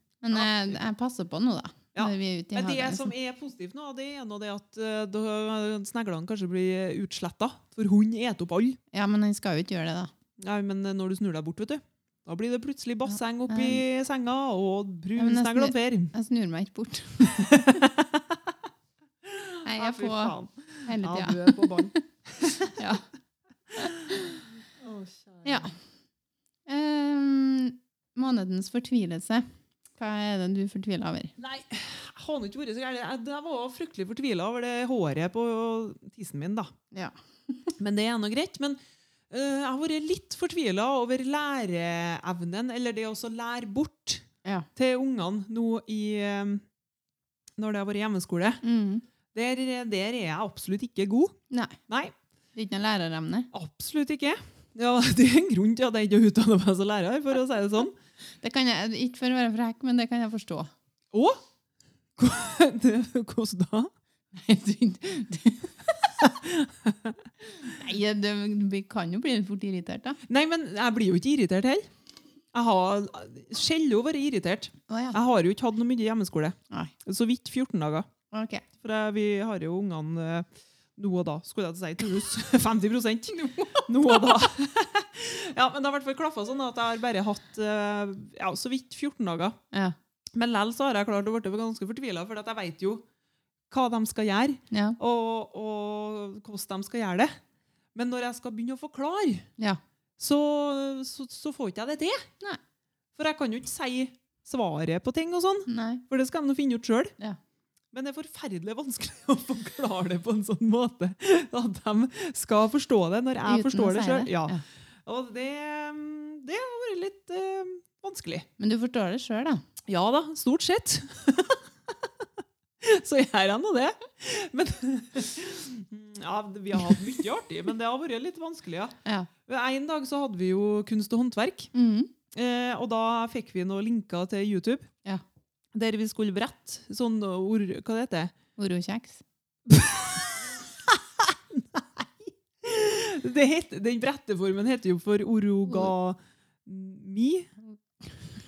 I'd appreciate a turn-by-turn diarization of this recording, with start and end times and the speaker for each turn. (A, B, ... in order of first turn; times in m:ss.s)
0:00.2-0:03.1 A
0:00.3-0:00.8 B
0:02.0-0:08.8 B
0:08.9-0:10.1 A
0:10.4-0:16.1 B
0:13.1-0:13.8 A
0:15.2-0:17.6 A
0:17.2-0:18.5 B
0:19.2-0:22.8 B
0:19.6-0:22.0 A
0:22.6-0:23.0 A
0:23.8-0:24.4 A
0:24.8-0:25.7 B
0:25.4-0:25.8 A
0:26.7-0:31.3 A
0:31.4-0:36.7 B
0:36.9-0:37.7 A
0:37.8-0:38.8 B
0:39.3-0:44.2 B
0:44.8-0:46.6 B
0:47.6-0:48.6 B
0:48.6-0:49.0 A
0:49.3-0:51.4 B
0:51.5-0:51.8 A
0:51.9-0:52.2 B
0:52.6-0:53.5 A
0:53.5-0:58.0 B
0:58.4-1:00.7 A
1:01.1-1:01.4 B
1:02.2-1:03.9 B
1:04.3-1:05.9 A
1:06.2-1:07.2 B
1:07.6-1:10.2 A
1:10.3-1:11.9 B
1:12.5-1:18.1 B
1:14.9-1:15.2 A
1:18.3-1:18.6 A
1:18.8-1:29.6 B
1:23.3-1:24.1 A
1:30.3-1:33.1 B
1:33.7-1:37.4 B
1:34.7-1:35.0 A
1:38.0-1:39.5 B
1:40.2-1:42.3 B
1:43.2-1:47.2 B
1:45.7-1:46.0 A
1:47.9-1:58.5 B
1:53.4-1:54.6 A
1:58.6-1:59.6 A
1:59.9-2:02.3 B
2:02.8-2:09.0 B
2:09.0-2:09.3 A
2:09.5-2:11.7 B
2:11.7-2:12.1 A
2:12.3-2:14.9 B
2:15.7-2:18.3 B
2:18.6-2:19.2 A
2:19.7-2:27.5 B